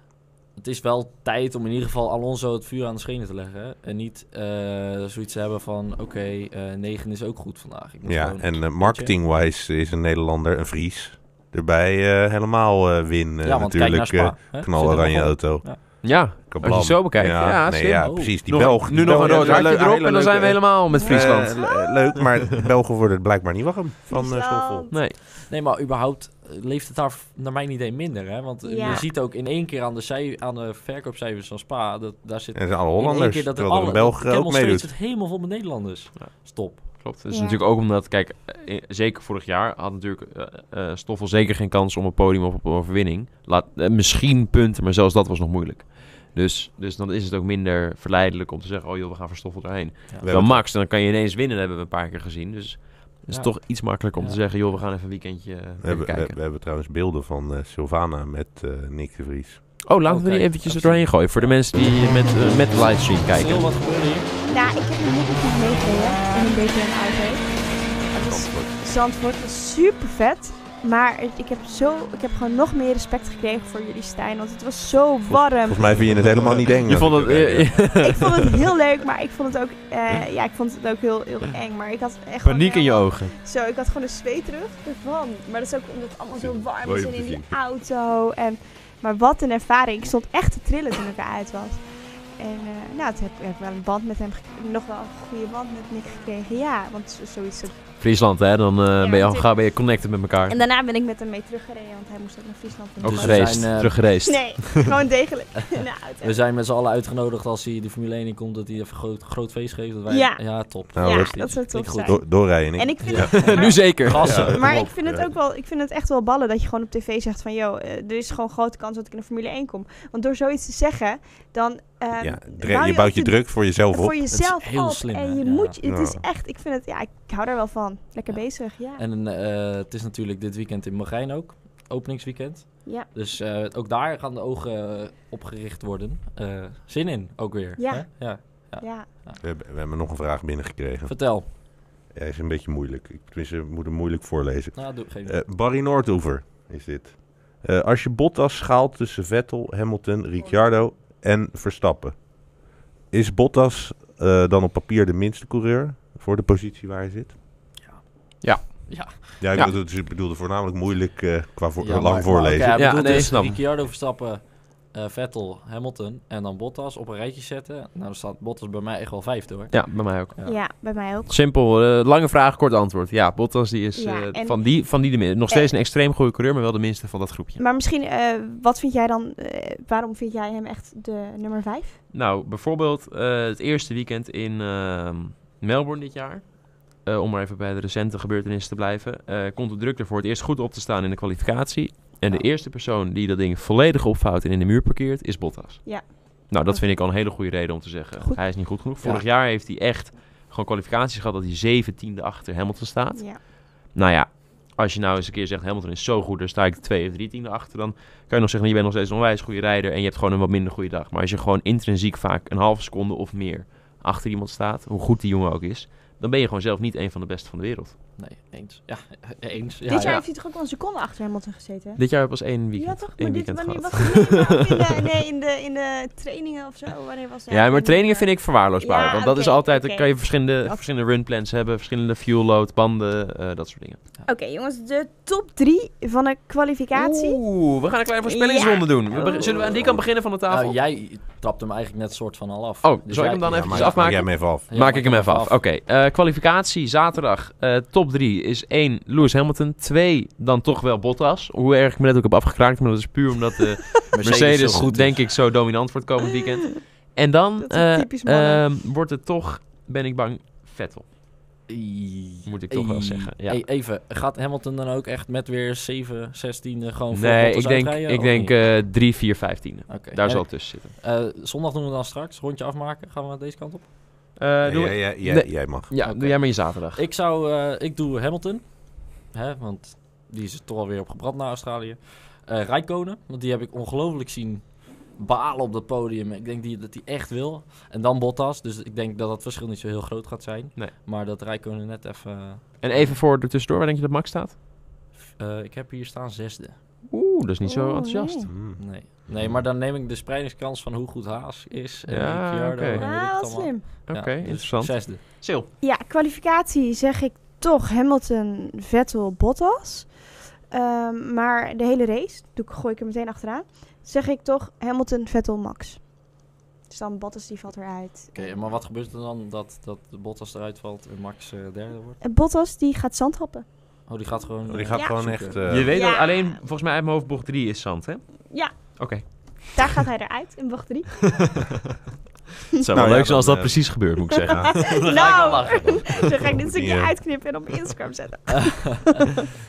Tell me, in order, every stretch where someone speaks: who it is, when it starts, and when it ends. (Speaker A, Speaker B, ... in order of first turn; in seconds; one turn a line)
Speaker A: 0.6-9.1
Speaker B: 8.0-24.9
Speaker A: 13.4-15.8
Speaker C: 16.0-21.7
Speaker A: 17.9-19.8
Speaker D: 20.9-22.2
Speaker D: 24.1-24.9
Speaker C: 24.9-25.1
Speaker A: 25.5-36.8
Speaker D: 28.6-29.1
Speaker B: 32.5-34.9
Speaker C: 36.1-56.4
Speaker D: 37.3-37.6
Speaker B: 50.2-50.6
Speaker A: 53.3-54.4
Speaker B: 55.8-59.8
Speaker C: 59.8-63.6
Speaker A: 60.0-61.6
Speaker A: 63.3-64.3
Speaker D: 64.5-75.9
Speaker B: 68.2-68.7
Speaker B: 75.2-78.0
Speaker C: 76.8-78.7
Speaker D: 78.0-97.8
Speaker C: 82.4-83.3
Speaker B: 86.3-87.6
Speaker C: 98.0-100.6
Speaker D: 99.0-99.5
Speaker D: 100.5-106.4
Speaker C: 103.0-104.9
Speaker A: 103.0-104.1
Speaker A: 105.7-112.2
Speaker D: 110.1-129.0
Speaker B: 110.9-115.3
Speaker A: 113.0-114.9
Speaker C: 113.2-114.6
Speaker B: 122.2-124.3
Speaker A: 124.3-125.8
Speaker B: 125.8-126.2
Speaker A: 128.3-139.4
Speaker D: 137.8-139.1
Speaker B: 139.4-157.3
Speaker A: 141.1-141.5
Speaker A: 144.7-145.4
Speaker A: 157.8-159.7
Speaker C: 158.4-159.7
Speaker B: 159.4-163.2
Speaker A: 161.8-170.6
Speaker C: 162.7-163.6
Speaker C: 169.7-170.3
Speaker D: 170.4-171.4
Speaker C: 171.3-177.6
Speaker D: 173.9-174.8
Speaker D: 177.6-182.0
Speaker C: 182.1-218.0
Speaker D: 195.8-196.8
Speaker A: 218.2-220.2
Speaker D: 219.9-230.1
Speaker C: 222.0-224.8
Speaker C: 227.5-234.0
Speaker D: 234.3-237.4
Speaker C: 236.9-240.8
Speaker D: 238.2-239.5
Speaker B: 239.7-240.0
Speaker A: 240.5-245.6
Speaker C: 242.8-261.1
Speaker B: 243.5-244.7
Speaker A: 254.1-255.2
Speaker D: 257.6-258.6
Speaker A: 261.7-268.6
Speaker C: 262.4-263.6
Speaker C: 267.1-270.9
Speaker A: 269.9-273.9
Speaker C: 274.4-277.0
Speaker B: 274.6-275.9
Speaker A: 276.0-293.2
Speaker C: 292.8-294.6
Speaker A: 295.4-296.8
Speaker C: 297.1-298.5
Speaker D: 297.6-298.5
Speaker B: 298.5-299.6
Speaker A: 298.8-305.2
Speaker C: 302.1-303.0
Speaker D: 303.0-303.9
Speaker C: 304.1-305.7
Speaker D: 305.8-318.5
Speaker A: 318.3-322.2
Speaker D: 322.2-323.6
Speaker A: 324.1-325.6
Speaker B: 324.6-325.9
Speaker D: 324.9-325.3
Speaker C: 325.7-330.0
Speaker D: 325.9-326.6
Speaker D: 328.5-331.5
Speaker C: 332.8-335.9
Speaker B: 332.9-335.0
Speaker D: 334.5-339.3
Speaker A: 335.0-336.1
Speaker B: 336.0-337.2